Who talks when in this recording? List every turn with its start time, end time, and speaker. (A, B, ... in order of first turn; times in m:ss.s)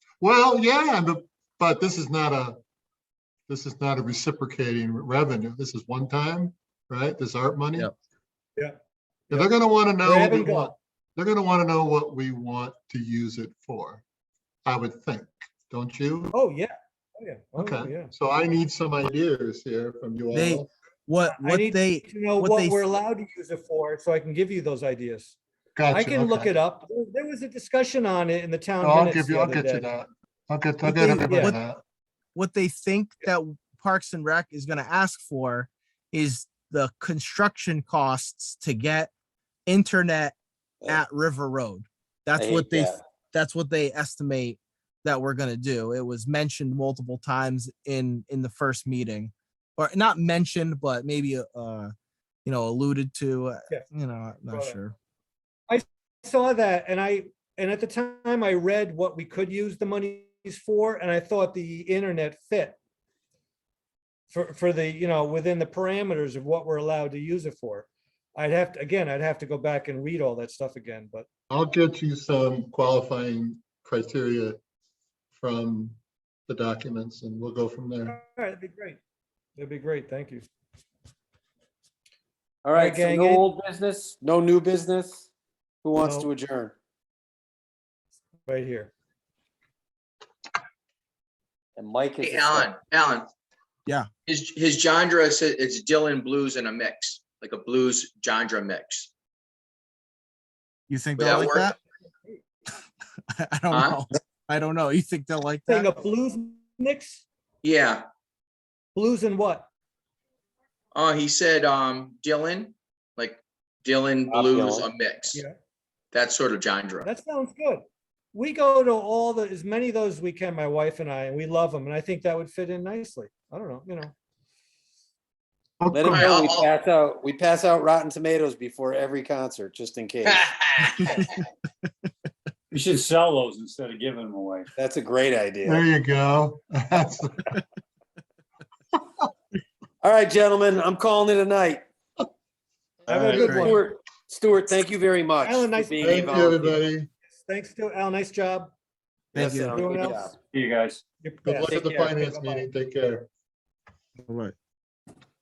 0:00.2-0:02.6 A
0:03.5-0:07.9 A
0:09.3-0:14.0 A
0:10.0-0:10.8 B
0:14.7-0:16.4 A
0:16.3-0:18.1 B
0:17.6-0:20.7 A
0:20.3-0:22.8 C
0:21.3-0:25.4 B
0:25.8-0:26.5 A
0:25.9-0:29.9 B
0:28.8-0:31.8 A
0:30.8-0:31.6 C
0:31.2-0:31.5 B
0:32.4-0:39.1 C
0:39.7-0:51.9 C
0:42.4-0:43.0 D
0:52.4-0:55.0 C
0:54.5-0:54.8 B
0:55.7-1:02.8 B
1:04.3-1:11.3 B
1:11.5-1:14.6 A
1:15.4-1:18.2 A
1:18.1-1:19.0 B
1:19.6-1:20.4 B
1:22.6-1:25.3 D
1:22.8-1:23.5 B
1:25.8-1:26.7 D
1:26.0-1:26.3 B
1:28.5-1:28.9 B
1:31.8-1:32.7 D
1:32.2-1:33.3 E
1:34.3-1:39.1 E
1:40.9-1:41.8 C
1:41.2-1:41.7 E
1:43.4-1:46.0 C
1:43.7-1:44.0 E
1:45.7-1:47.2 B
1:47.6-1:48.1 E
1:49.0-1:49.7 B
1:50.9-1:55.4 E
1:54.3-1:54.9 D
1:56.1-1:57.1 E
1:57.0-2:04.1 B
2:05.8-2:06.3 A
2:05.9-2:10.6 D
2:06.1-2:06.7 E
2:10.3-2:11.3 E
2:12.7-2:14.7 F
2:14.8-2:15.8 D
2:15.6-2:17.6 A
2:20.0-2:21.8 D
2:23.1-2:23.9 B
2:23.1-2:26.8 D
2:23.3-2:23.7 C
2:25.4-2:26.2 B
2:26.0-2:27.1 A
2:27.3-2:28.7 B
2:29.3-2:30.1 C
2:29.4-2:30.4 D
2:29.6-2:30.2 B
2:30.4-2:31.0 F
2:31.2-2:32.7 B
2:31.5-2:33.3 A
2:34.3-2:34.5 C